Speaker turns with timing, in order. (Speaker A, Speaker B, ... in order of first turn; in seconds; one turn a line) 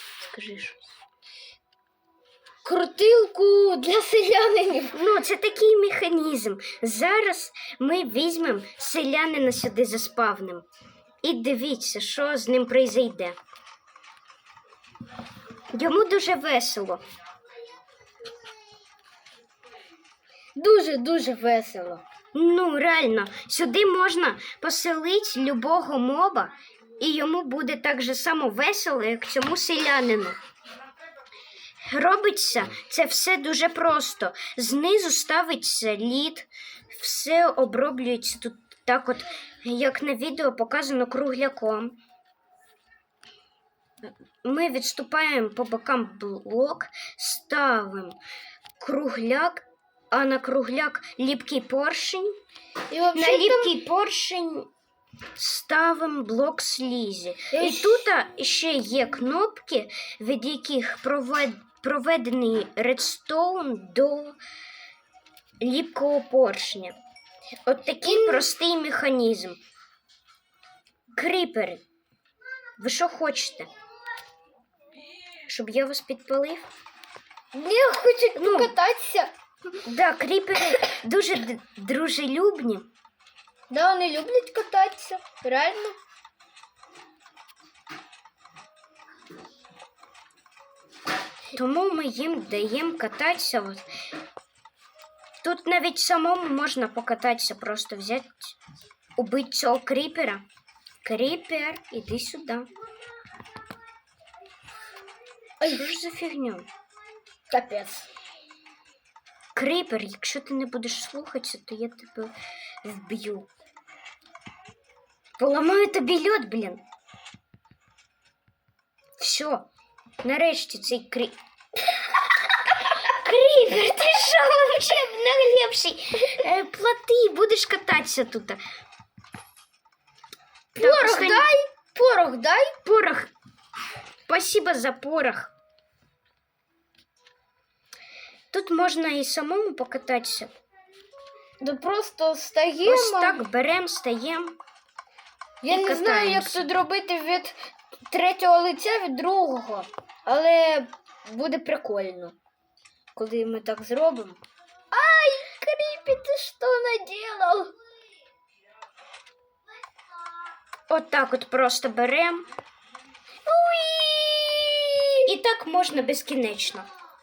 Speaker A: 0.2-0.8
Speaker B: 2.6-5.0
Speaker A: 4.9-10.7
Speaker A: 11.2-13.4
Speaker A: 15.7-17.0
Speaker B: 20.6-22.0
Speaker A: 22.3-30.4
Speaker A: 31.9-42.0
Speaker A: 44.0-48.2
Speaker A: 48.8-52.3
Speaker B: 52.9-53.7
Speaker A: 53.1-54.7
Speaker A: 55.4-64.4
Speaker B: 57.5-58.1
Speaker A: 65.6-67.0
Speaker A: 67.7-69.6
Speaker B: 68.0-68.5
Speaker A: 71.2-71.8
Speaker A: 72.8-73.7
Speaker A: 75.5-76.7
Speaker B: 77.5-79.3
Speaker A: 78.4-78.7
Speaker A: 79.8-82.9
Speaker B: 83.7-86.0
Speaker A: 91.5-93.8
Speaker A: 95.4-98.6
Speaker A: 99.2-100.4
Speaker A: 101.0-102.7
Speaker A: 105.6-106.7
Speaker B: 107.5-108.1
Speaker A: 109.5-112.3
Speaker A: 112.8-113.5
Speaker A: 115.4-116.8
Speaker A: 119.2-119.7
Speaker A: 120.2-121.3
Speaker A: 122.7-128.6
Speaker B: 130.8-132.9
Speaker A: 130.8-131.5
Speaker A: 132.9-133.3
Speaker A: 134.3-135.5
Speaker A: 138.5-140.5
Speaker B: 141.6-143.4
Speaker A: 142.8-144.6
Speaker B: 145.6-147.6
Speaker A: 145.7-146.7
Speaker B: 148.1-152.3
Speaker B: 153.2-154.4
Speaker B: 154.9-157.7
Speaker A: 160.9-162.5
Speaker B: 163.5-165.2
Speaker A: 165.3-166.9